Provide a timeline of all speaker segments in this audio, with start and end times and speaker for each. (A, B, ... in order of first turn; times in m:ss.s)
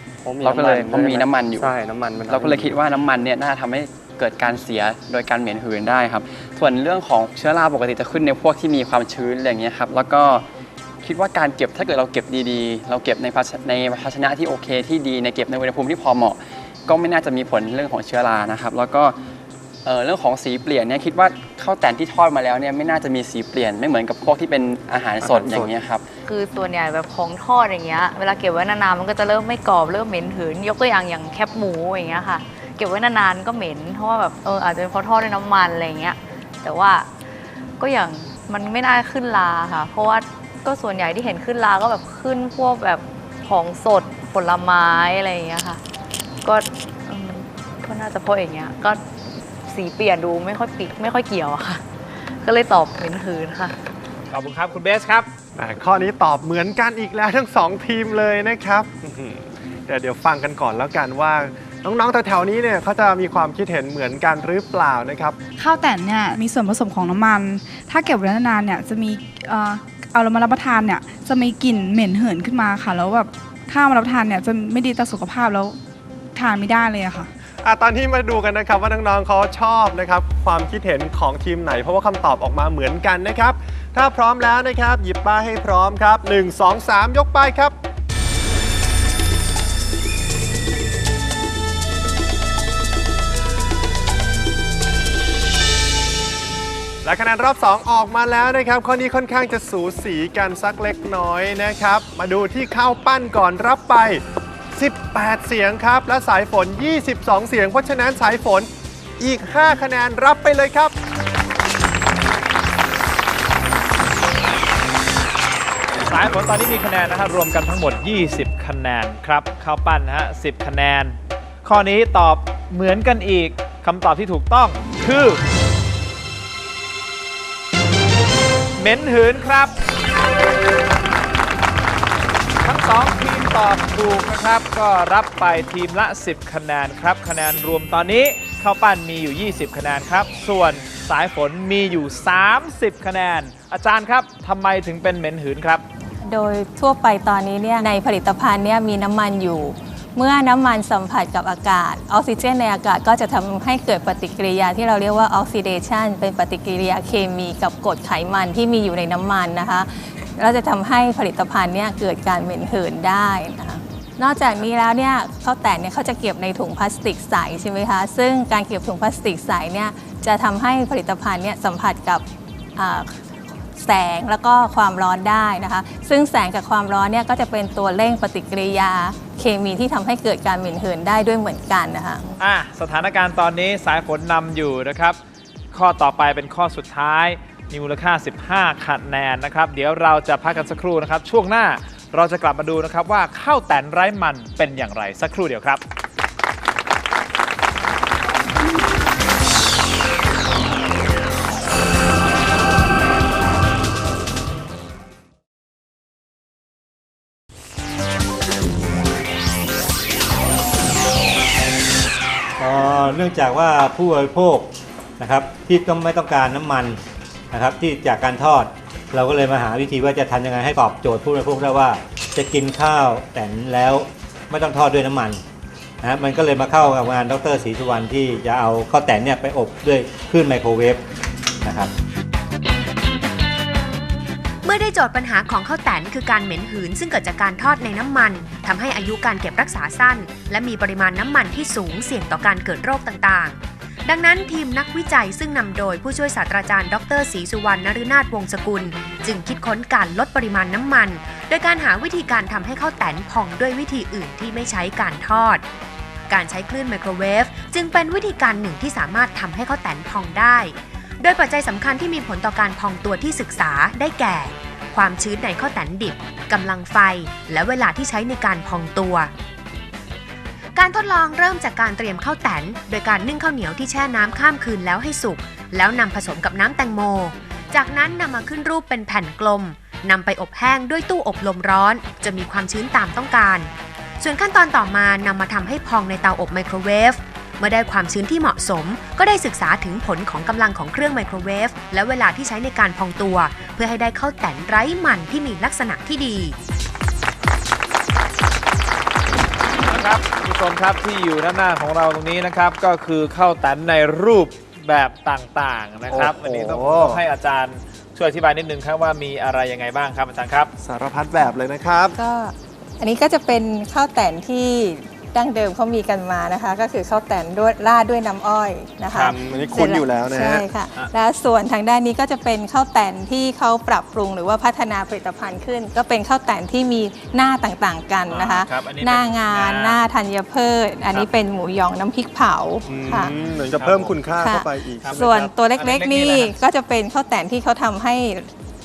0:00.2-0:02.8 A
0:00.4-0:01.7 B
0:02.3-0:10.5 B
0:11.0-0:19.2 B
0:19.8-0:26.1 B
0:25.2-0:25.7 C
0:26.2-0:37.1 D
0:37.8-0:45.8 D
0:46.4-0:49.0 D
0:49.6-0:51.8 D
0:52.4-0:53.8 D
0:54.3-0:55.3 E
0:55.6-1:05.4 C
1:05.6-1:15.8 F
1:16.4-1:17.3 F
1:17.6-1:27.7 C
1:37.0-1:44.2 C
1:44.7-1:50.9 C
1:56.0-2:05.4 E
2:08.8-2:09.8 E
2:12.6-2:25.8 E
2:26.2-2:52.2 G
2:52.8-2:53.2 G
2:53.8-3:02.4 G
3:02.4-3:05.2 E
3:05.7-3:15.8 E
3:32.6-3:45.4 H
3:46.0-3:51.0 H
3:51.6-3:51.9 H
3:54.6-4:15.6 I
4:16.3-4:29.3 I
4:30.8-4:56.6 I
4:59.8-5:10.7 E
5:06.1-5:07.2 C
5:10.8-5:12.2 C
5:12.2-5:33.3 G
5:19.3-5:20.7 C
5:28.3-5:30.0 E
5:32.9-5:35.4 C
5:33.1-5:34.2 E
5:34.4-5:38.5 G
5:35.0-5:36.5 E